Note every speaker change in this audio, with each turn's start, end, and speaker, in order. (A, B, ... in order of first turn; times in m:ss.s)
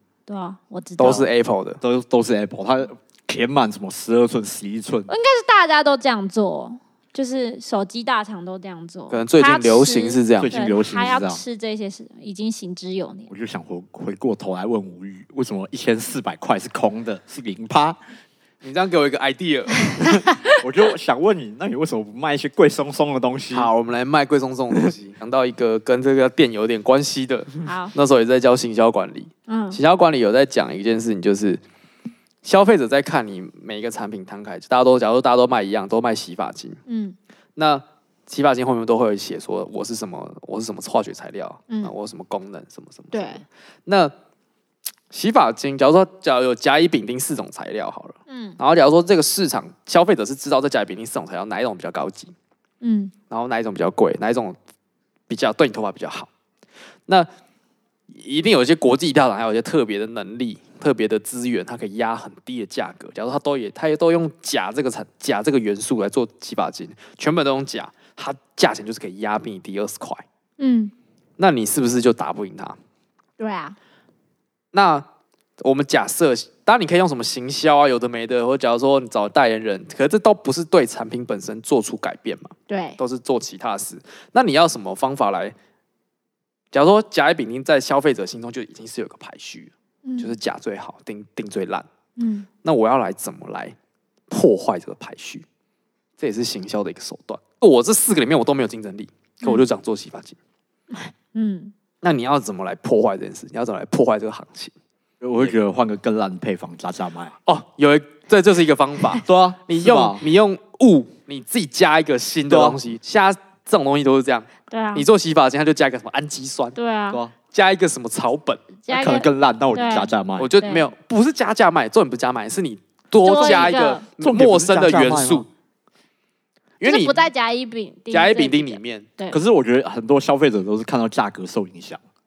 0:00.3-0:01.3 A
0:01.0-0:01.8 B
0:01.8-0:05.1 C
0:05.1-0:13.3 A
0:09.1-0:10.6 B
0:10.4-0:11.4 C
0:13.3-0:18.0 C
0:18.6-0:20.2 B
0:19.9-0:20.6 A
0:20.6-0:23.7 C
0:23.5-0:31.6 B
0:27.6-0:27.9 A
0:29.5-0:29.8 A
0:32.4-0:36.8 B
0:36.9-0:37.2 A
0:37.6-0:44.1 B
0:43.1-0:43.4 A
0:45.1-0:52.3 B
0:48.3-0:48.6 A
0:52.8-0:53.1 A
0:53.3-0:54.6 B
0:55.3-0:56.3 B
0:58.1-1:10.2 B
1:10.6-1:10.9 A
1:11.4-1:12.8 B
1:13.4-1:13.8 A
1:14.7-1:15.1 B
1:15.6-1:25.6 B
1:22.7-1:23.0 A
1:26.7-1:31.9 B
1:30.0-1:30.4 A
1:32.2-1:32.5 A
1:32.6-1:33.8 B
1:34.3-1:35.4 B
1:36.2-1:40.4 B
1:40.9-1:41.7 A
1:42.0-1:44.7 B
1:45.2-1:47.4 C
1:47.5-1:56.8 B
1:49.2-1:50.2 C
1:52.5-1:52.8 C
1:54.7-1:55.1 A
1:56.8-1:57.2 A
1:57.5-1:58.6 B
1:58.8-2:00.9 A
1:58.9-2:00.5 C
2:00.4-2:05.5 B
2:03.2-2:04.1 A
2:03.4-2:05.5 C
2:06.8-2:07.3 B
2:06.8-2:09.4 A
2:08.1-2:09.1 B
2:09.3-2:12.0 C